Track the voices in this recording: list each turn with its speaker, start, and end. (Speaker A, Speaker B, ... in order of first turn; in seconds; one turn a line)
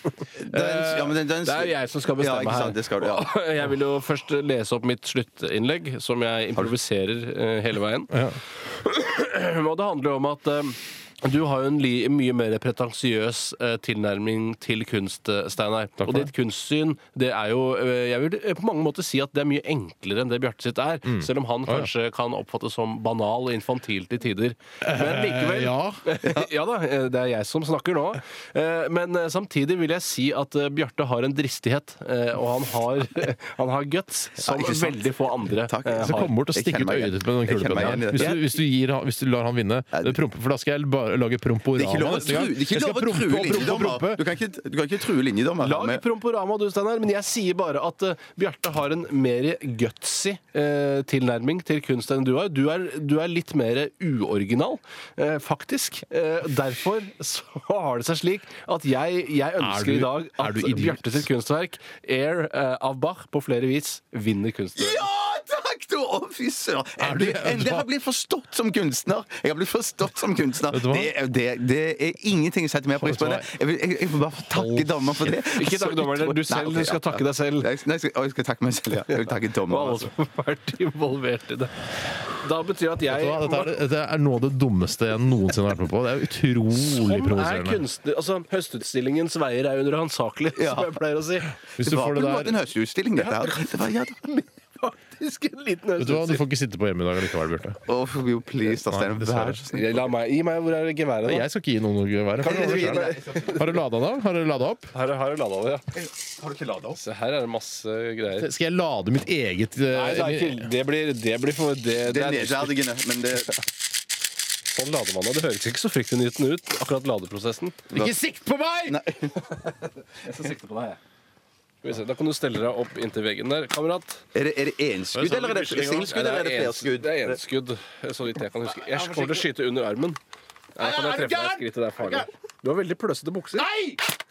Speaker A: 0.4-3.3
Speaker B: 0.5-8.1
Speaker B: 8.7-36.4
Speaker C: 16.0-16.3
Speaker C: 21.1-21.9
Speaker C: 24.8-26.0
Speaker A: 34.4-35.1
Speaker A: 35.7-38.5
Speaker C: 36.0-44.2
Speaker A: 39.9-40.2
Speaker A: 41.8-46.0
Speaker B: 45.6-65.0
Speaker C: 59.6-61.3
Speaker A: 64.8-80.1
Speaker C: 67.0-67.9
Speaker C: 70.7-71.1
Speaker C: 73.0-73.5
Speaker C: 74.5-75.1
Speaker B: 75.6-77.7
Speaker B: 79.1-81.7
Speaker B: 82.3-83.8
Speaker C: 83.1-87.8
Speaker B: 86.7-91.5
Speaker A: 90.6-90.9
Speaker C: 91.8-92.5
Speaker A: 91.8-94.2
Speaker B: 93.2-96.5
Speaker C: 96.0-97.8
Speaker A: 97.8-100.0
Speaker C: 98.9-99.6
Speaker B: 99.7-101.5
Speaker C: 101.2-104.9
Speaker A: 102.4-103.6
Speaker B: 102.4-103.5
Speaker B: 104.9-105.9
Speaker A: 106.4-107.0
Speaker B: 107.0-108.5
Speaker C: 108.4-110.7
Speaker B: 109.9-112.8
Speaker A: 112.0-113.6
Speaker B: 114.7-117.8
Speaker C: 117.9-119.0
Speaker A: 118.9-119.3
Speaker B: 119.7-121.0
Speaker B: 121.8-124.2
Speaker A: 124.3-127.4
Speaker B: 125.3-130.2
Speaker B: 130.8-133.7
Speaker C: 130.8-132.2
Speaker C: 133.6-134.0